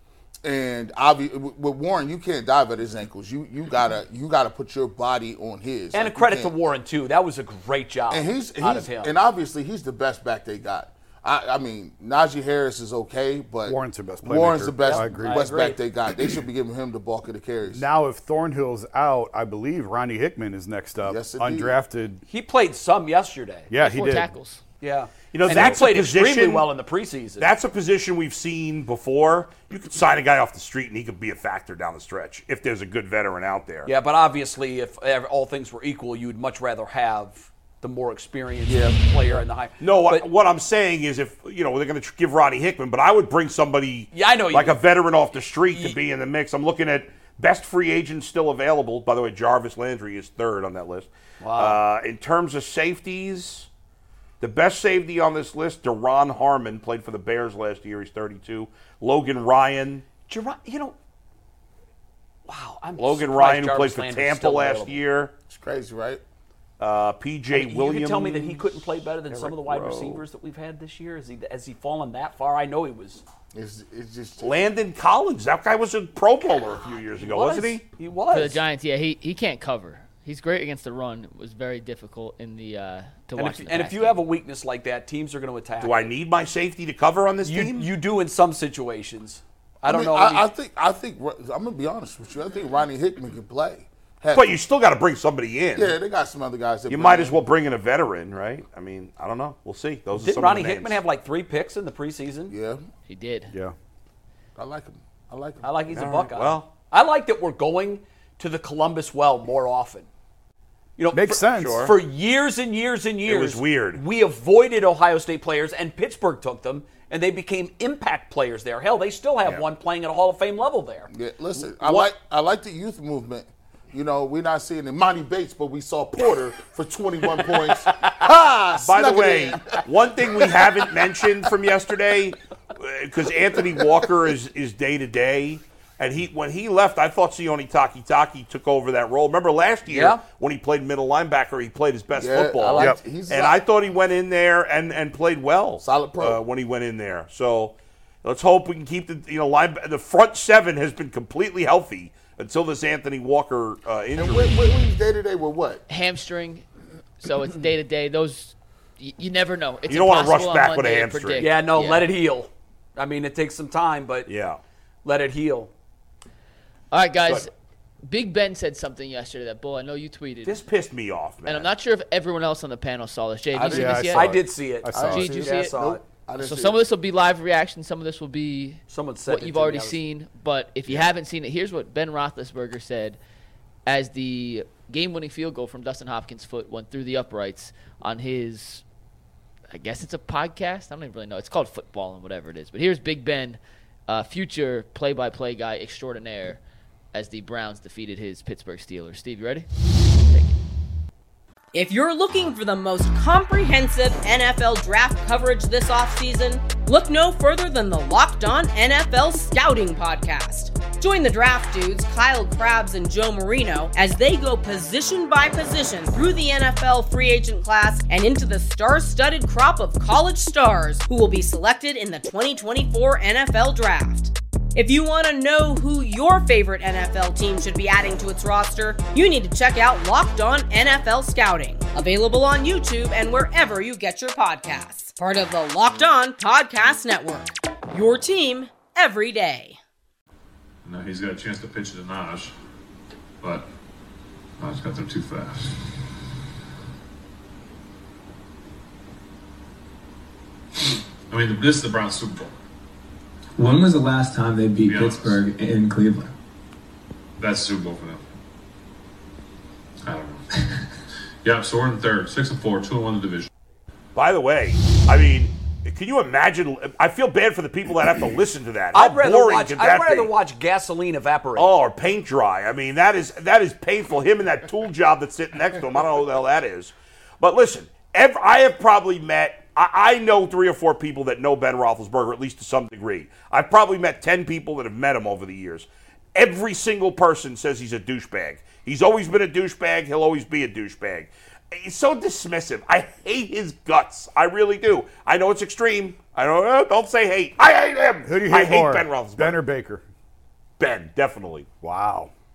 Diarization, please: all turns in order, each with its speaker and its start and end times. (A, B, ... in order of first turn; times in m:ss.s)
0:00.4-0:06.5 A
0:05.9-0:09.1 B
0:08.1-0:17.8 A
0:13.6-0:15.5 C
0:14.8-0:15.8 B
0:17.7-0:22.2 C
0:21.0-0:21.7 A
0:22.3-0:23.7 B
0:23.7-0:24.3 C
0:23.8-0:24.6 D
0:24.8-0:27.5 B
0:25.3-0:26.7 E
0:27.4-0:33.9 E
0:33.8-0:40.2 B
0:38.7-0:39.4 A
0:39.8-0:53.7 E
0:44.1-0:44.8 B
0:45.7-0:46.0 B
0:51.4-0:51.8 B
0:54.4-1:00.0 E
1:00.3-1:01.0 B
1:02.4-1:05.0 B
1:03.0-1:05.3 E
1:05.5-1:06.2 A
1:06.8-1:08.6 E
1:07.5-1:13.2 B
1:09.3-1:10.2 E
1:13.5-1:14.5 A
1:14.4-1:17.8 E
1:17.2-1:18.6 B
1:18.3-1:24.2 D
1:23.4-1:26.0 B
1:25.8-1:27.9 E
1:27.4-1:30.5 B
1:29.8-1:34.6 A
1:34.3-1:36.0 E
1:35.7-1:37.4 A
1:36.9-1:41.0 E
1:40.1-1:42.5 B
1:42.5-1:42.8 A
1:43.1-1:43.5 D
1:44.6-1:45.7 A
1:45.6-1:50.1 B
1:45.9-1:46.6 E
1:51.0-2:02.1 B
1:51.1-1:51.9 C
1:51.6-1:51.9 E
1:53.2-1:54.0 E
2:01.1-2:11.2 A
2:08.8-2:34.6 E
2:13.6-2:14.0 A
2:19.9-2:20.2 B
2:22.1-2:23.6 A
2:25.8-2:26.4 A
2:34.2-2:35.8 A
2:35.9-2:36.6 D
2:37.2-2:42.0 D
2:39.9-2:41.5 E
2:41.4-2:44.3 B
2:44.2-2:44.6 E
2:45.0-2:45.7 B
2:46.9-2:47.5 D
2:48.0-2:50.6 D
2:50.4-2:51.7 E
2:51.4-2:54.3 D
2:53.5-2:54.3 A
2:53.6-2:55.5 C
2:54.1-2:56.0 B
2:54.9-2:56.8 A
2:55.0-2:55.7 D
2:56.4-3:03.2 D
2:58.9-3:00.0 B
3:03.8-3:08.8 D
3:09.7-3:16.6 D
3:17.1-3:19.7 D
3:20.3-3:20.5 D
3:21.7-3:59.8 F
4:00.8-4:02.5 G
4:03.4-4:03.7 G
4:04.6-4:05.9 G
4:11.3-4:12.5 G
4:13.6-4:16.3 H
4:14.8-4:15.4 G
4:17.4-4:18.2 G
4:20.0-4:20.4 G
4:21.4-4:23.5 G
4:24.1-4:30.3 E
4:28.9-4:31.7 B
4:31.6-4:59.6 E
4:58.2-5:00.0 C
5:00.8-5:01.7 E
5:01.8-5:02.3 C